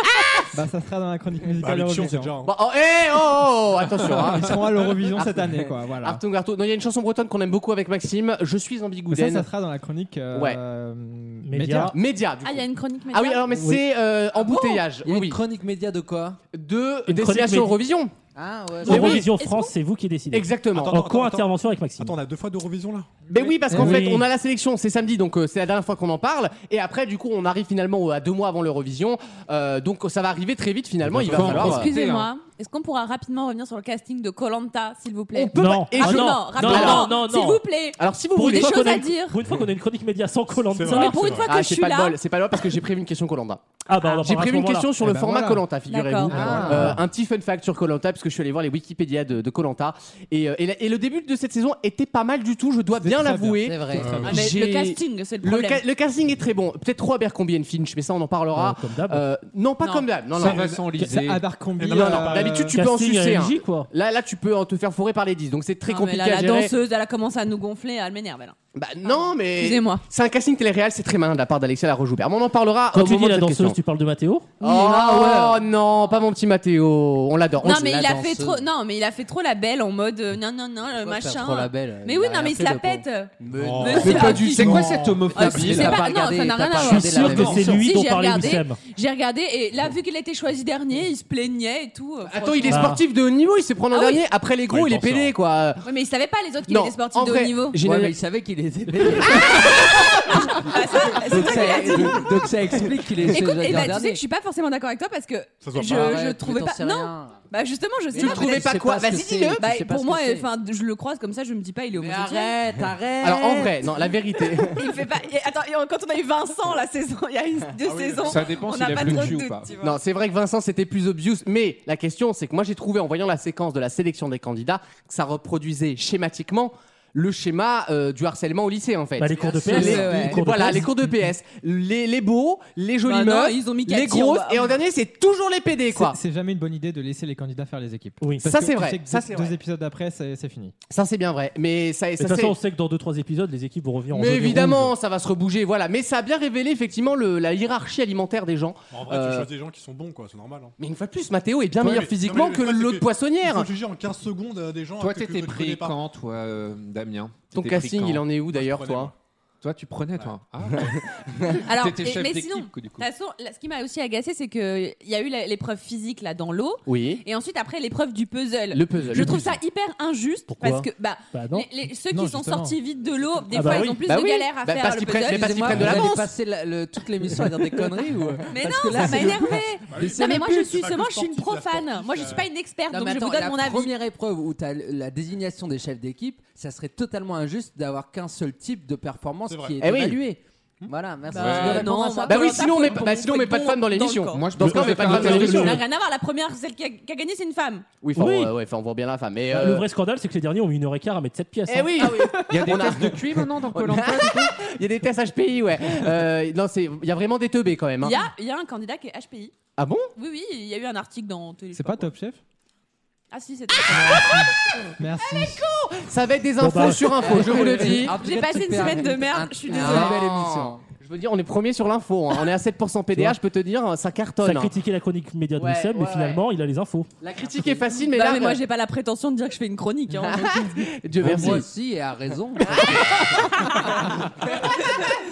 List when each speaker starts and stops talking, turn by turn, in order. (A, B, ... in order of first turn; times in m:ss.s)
0:00.5-0:02.3 A
0:01.6-0:02.5 B
0:02.4-0:04.6 C
0:04.3-0:06.2 A
0:05.1-0:09.5 C
0:09.1-0:11.9 A
0:10.3-0:10.6 C
0:11.4-0:12.0 D
0:11.9-0:15.4 C
0:12.4-0:13.4 E
0:13.5-0:13.8 D
0:14.4-0:16.4 F
0:16.5-0:18.1 C
0:17.1-0:17.8 D
0:18.4-0:19.2 F
0:18.8-0:22.2 D
0:18.9-0:19.3 C
0:18.9-0:19.7 E
0:20.3-0:21.0 C
0:20.8-0:23.5 B
0:23.3-0:31.9 C
0:23.6-0:24.3 D
0:31.0-0:31.9 B
0:31.2-0:32.3 G
0:31.6-0:39.4 E
0:35.4-0:37.2 C
0:35.5-0:37.6 D
0:38.0-0:39.0 C
0:38.4-0:41.5 D
0:40.6-0:41.5 B
0:40.8-0:42.2 E
0:41.5-1:00.9 C
0:43.9-0:44.9 D
0:45.0-0:45.6 A
0:45.9-0:46.3 E
0:46.3-0:47.0 A
0:46.3-0:47.0 F
0:53.0-0:54.4 A
0:53.6-0:54.2 F
0:53.9-0:54.4 B
0:54.3-0:55.8 E
0:58.5-0:59.2 D
0:59.8-1:00.1 E
1:00.3-1:01.5 G
1:00.4-1:01.1 B
1:01.0-1:02.8 A
1:01.8-1:02.7 B
1:01.8-1:06.7 C
1:02.7-1:03.9 D
1:05.9-1:10.0 E
1:08.8-1:13.8 C
1:12.9-1:14.5 D
1:14.6-1:15.6 F
1:14.6-1:17.9 C
1:17.6-1:18.6 F
1:17.6-1:33.0 E
1:20.9-1:24.5 F
1:23.5-1:25.3 B
1:24.0-1:25.0 C
1:24.3-1:26.0 G
1:25.2-1:27.9 F
1:26.8-1:28.8 D
1:32.3-1:35.9 C
1:32.7-1:33.0 D
1:33.9-1:34.2 E
1:34.7-1:35.4 B
1:35.8-1:37.8 E
1:36.7-1:38.2 C
1:37.8-1:44.2 F
1:39.3-1:42.5 E
1:43.3-1:52.6 E
1:45.6-1:46.2 B
1:45.8-1:47.4 F
1:48.1-1:50.5 F
1:48.1-1:49.6 C
1:52.0-1:54.1 F
1:53.2-1:54.8 C
1:54.7-2:00.0 E
1:57.8-1:58.5 B
1:58.2-1:59.7 G
1:59.8-2:16.2 C
2:09.2-2:11.0 D
2:09.5-2:10.5 E
2:13.0-2:14.8 E
2:15.9-2:20.7 A
2:18.4-2:19.5 C
2:20.9-2:22.6 C
2:22.2-2:24.9 D
2:24.1-2:29.5 C
2:28.9-2:30.7 B
2:30.8-2:33.7 C
2:31.8-2:36.0 B
2:35.0-2:38.2 G
2:37.5-2:39.1 C
2:38.5-2:39.1 B
2:39.6-2:43.1 G
2:41.5-2:56.0 E
2:46.9-2:47.2 C
2:48.7-2:49.5 C
2:50.6-2:51.7 D
2:52.1-2:52.8 A
2:53.5-2:54.0 D
2:53.7-2:56.3 C
2:55.2-3:00.6 F
2:58.5-3:04.0 E
2:59.9-3:02.5 B
3:02.9-3:13.0 F
3:09.5-3:09.8 B
3:09.8-3:10.2 C
3:11.3-3:17.9 E
3:11.3-3:12.0 G
3:12.3-3:15.8 C
3:14.3-3:15.8 G
3:14.6-3:15.8 D
3:18.0-3:19.9 C
3:18.2-3:18.5 D
3:19.5-3:22.4 D
3:21.7-3:28.2 C
3:22.0-3:22.3 E
3:22.4-3:24.6 G
3:28.0-3:29.5 E
3:29.8-3:30.1 C
3:30.2-3:32.1 E
3:31.7-3:32.4 A
3:33.3-3:34.4 E
3:33.9-3:35.6 A
3:35.3-3:38.2 C
3:36.6-3:37.2 D
3:37.2-3:40.8 F
3:38.1-3:40.2 E
3:39.7-3:44.7 C
3:44.4-3:47.1 D
3:45.6-3:46.4 C
3:47.2-3:48.6 C
3:48.1-3:50.8 E
3:50.3-3:51.7 C
3:51.2-3:53.4 F
3:52.8-3:53.3 C
3:53.4-3:55.2 E